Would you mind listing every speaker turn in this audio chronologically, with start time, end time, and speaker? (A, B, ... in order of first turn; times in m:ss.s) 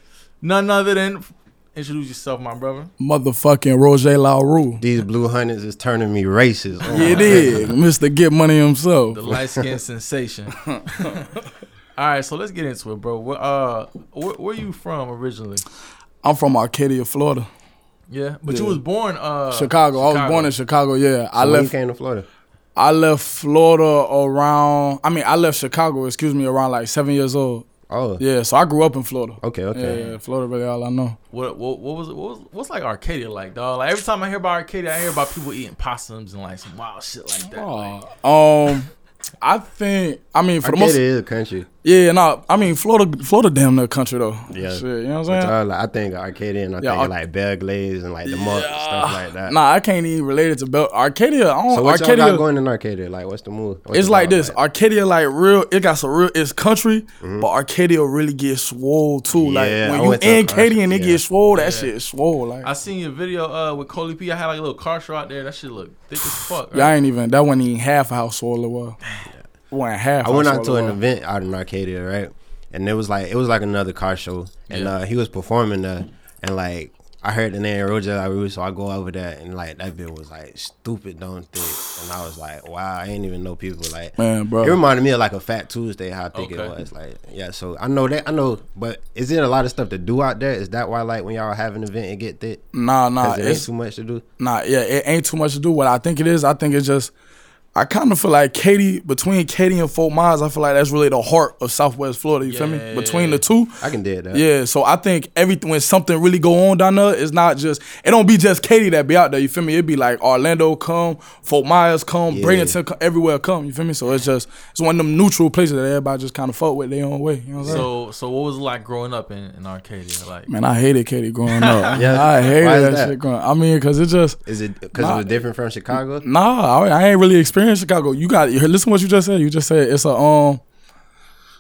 0:00.4-0:02.9 A
0:03.0-0:04.8 B
0:04.8-0:07.7 C
0:06.9-0:09.2 B
0:06.9-0:07.7 A
0:09.1-0:11.3 A
0:12.0-0:15.6 A
0:16.2-0:17.5 B
0:18.1-0:20.6 A
0:18.5-0:18.8 B
0:19.5-0:21.7 B
0:21.4-0:22.3 C
0:22.8-0:27.6 B
0:27.9-0:28.2 C
0:28.2-0:31.2 B
0:29.4-0:30.0 C
0:29.9-0:30.2 A
0:31.3-0:38.0 A
0:37.5-0:38.9 B
0:39.4-0:41.0 B
0:40.6-0:41.7 C
0:41.8-0:45.5 B
0:44.5-0:49.6 C
0:46.8-0:47.1 B
0:48.2-0:52.4 B
0:51.7-0:54.6 C
0:53.9-1:02.7 B
0:57.2-0:57.5 C
0:59.3-1:01.2 C
1:01.5-1:01.9 A
1:02.6-1:07.0 A
1:06.7-1:09.0 B
1:09.7-1:11.0 B
1:10.2-1:32.6 C
1:14.7-1:15.0 A
1:24.2-1:24.8 B
1:26.3-1:26.8 A
1:32.7-1:33.7 B
1:33.2-1:34.2 C
1:34.4-1:37.1 B
1:37.8-1:43.8 B
1:42.4-1:43.4 A
1:43.8-1:44.4 C
1:44.3-1:57.9 B
1:52.3-1:52.8 C
1:57.6-1:57.9 C
1:57.6-2:00.5 A
2:00.5-2:04.4 B
2:01.5-2:02.0 A
2:02.0-2:03.2 C
2:04.5-2:06.2 C
2:05.0-2:05.3 B
2:06.2-2:10.6 B